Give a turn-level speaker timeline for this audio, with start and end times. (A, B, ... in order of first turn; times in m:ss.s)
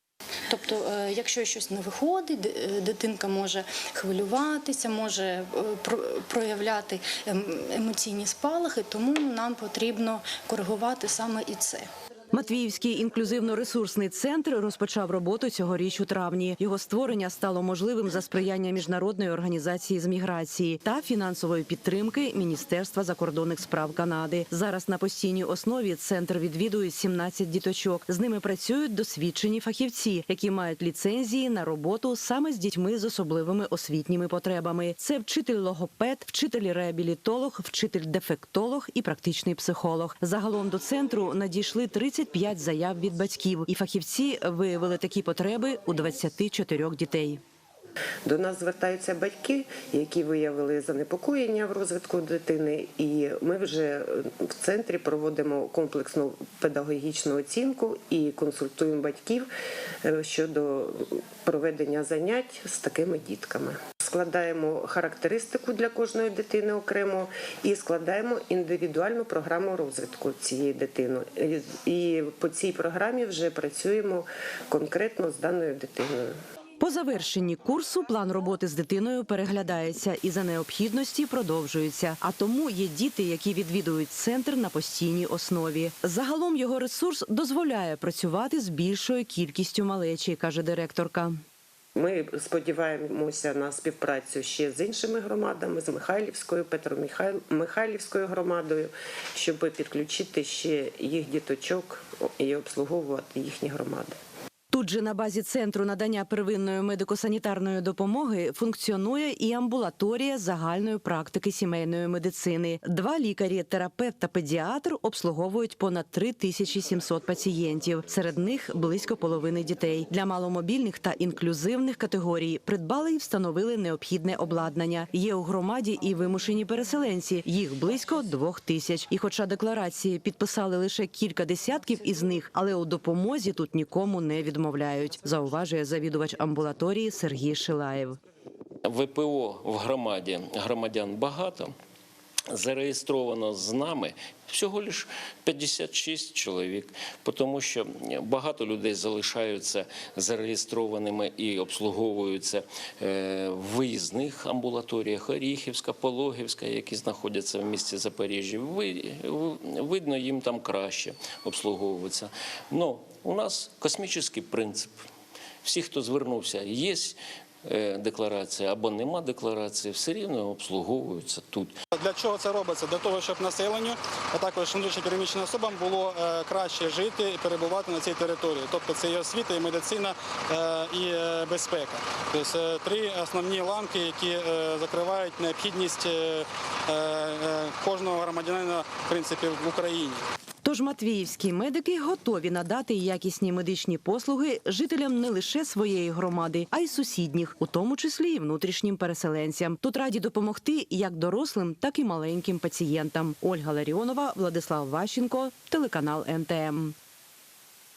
0:00.5-0:11.9 A
0:12.3-0:47.4 B
0:48.3-0:59.5 C
1:00.0-1:16.4 C
1:16.8-1:31.4 B
1:32.0-1:44.2 C
1:44.7-2:18.2 B
2:18.8-2:21.7 D
2:22.5-2:45.1 D
2:45.6-2:51.8 D
2:51.9-3:10.2 E
3:10.6-3:27.0 B